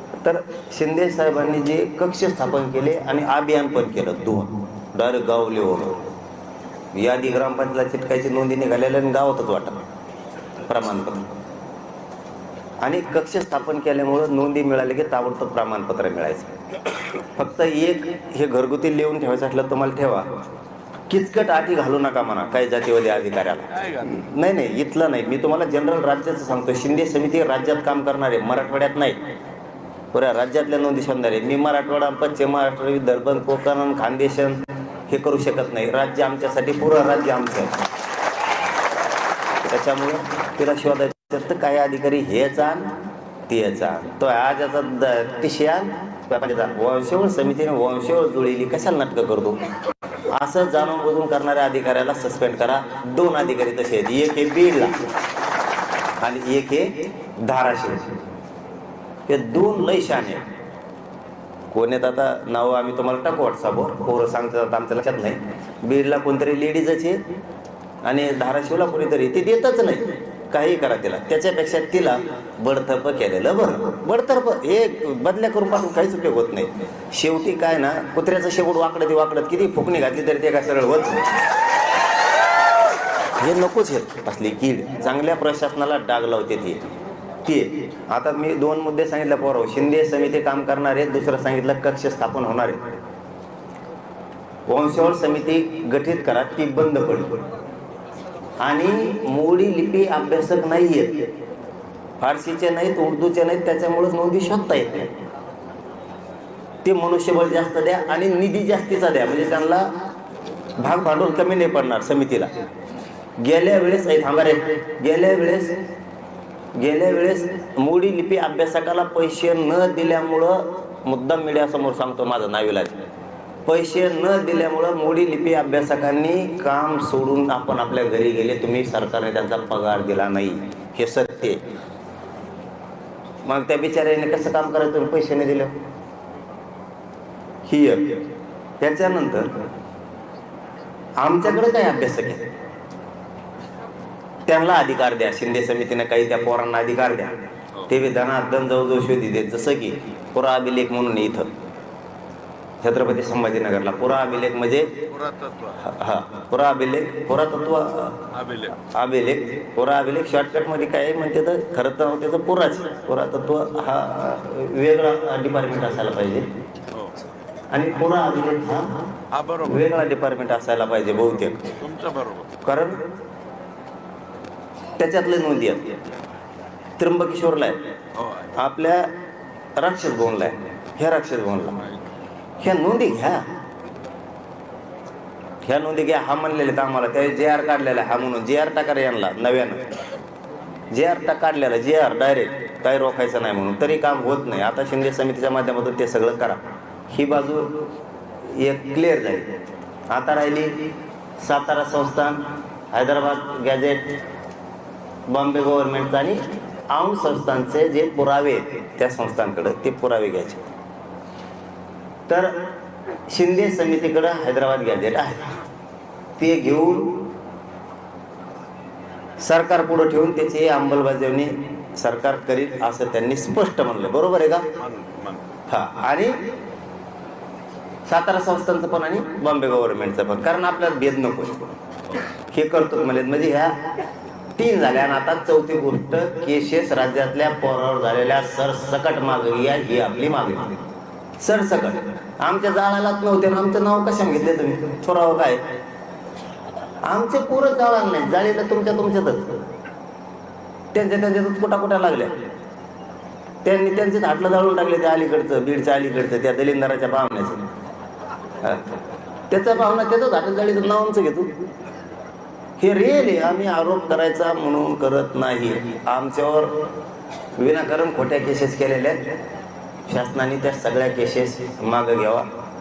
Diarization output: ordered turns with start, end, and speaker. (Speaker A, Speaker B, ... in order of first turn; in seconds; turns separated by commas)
Speaker A: 0.2-6.0, Speaker A: 6.9-9.8, Speaker A: 10.7-11.3, Speaker A: 12.8-16.5, Speaker A: 17.2-20.3, Speaker A: 21.1-29.2, Speaker A: 30.1-37.7, Speaker A: 39.6-42.9, Speaker A: 43.5-49.6, Speaker A: 50.3-55.0, Speaker A: 56.2-58.1, Speaker A: 59.3-60.4, Speaker A: 61.7-67.2, Speaker A: 68.0-81.3, Speaker A: 83.4-86.8, Speaker A: 87.4-92.9, Speaker A: 94.7-97.4, Speaker A: 98.6-101.3, Speaker A: 102.2-105.1, Speaker A: 106.8-109.9, Speaker A: 110.8-112.5, Speaker A: 113.4-115.8, Speaker A: 116.8-123.0, Speaker A: 123.7-131.6, Speaker A: 133.4-135.7, Speaker A: 137.7-138.2, Speaker A: 138.8-139.5, Speaker A: 141.2-142.5, Speaker A: 144.5-147.3, Speaker A: 147.9-151.5, Speaker A: 152.8-155.1, Speaker B: 155.1-155.9, Speaker A: 155.8-166.5, Speaker B: 158.3-158.8, Speaker A: 167.7-169.0, Speaker B: 169.3-169.8, Speaker A: 169.6-171.8, Speaker B: 171.8-172.5, Speaker A: 172.6-173.0, Speaker A: 175.0-175.8, Speaker A: 177.0-177.8, Speaker B: 178.2-178.5, Speaker A: 178.6-179.1, Speaker A: 179.8-181.8, Speaker A: 182.6-183.4, Speaker A: 185.7-189.8, Speaker A: 190.9-197.8, Speaker A: 198.5-199.5, Speaker A: 200.1-200.9, Speaker A: 201.4-204.0, Speaker A: 205.3-210.6, Speaker A: 212.3-212.6, Speaker A: 213.3-215.6, Speaker A: 216.4-217.2, Speaker A: 219.4-224.7, Speaker B: 224.8-225.4, Speaker A: 225.7-226.4, Speaker A: 228.1-231.7, Speaker A: 232.5-233.8, Speaker A: 234.6-240.8, Speaker A: 241.4-245.6, Speaker A: 247.0-249.6, Speaker A: 250.9-252.3, Speaker A: 253.6-257.6, Speaker A: 258.6-258.9, Speaker A: 259.5-261.5, Speaker A: 262.8-266.8, Speaker A: 267.6-269.2, Speaker A: 270.1-272.5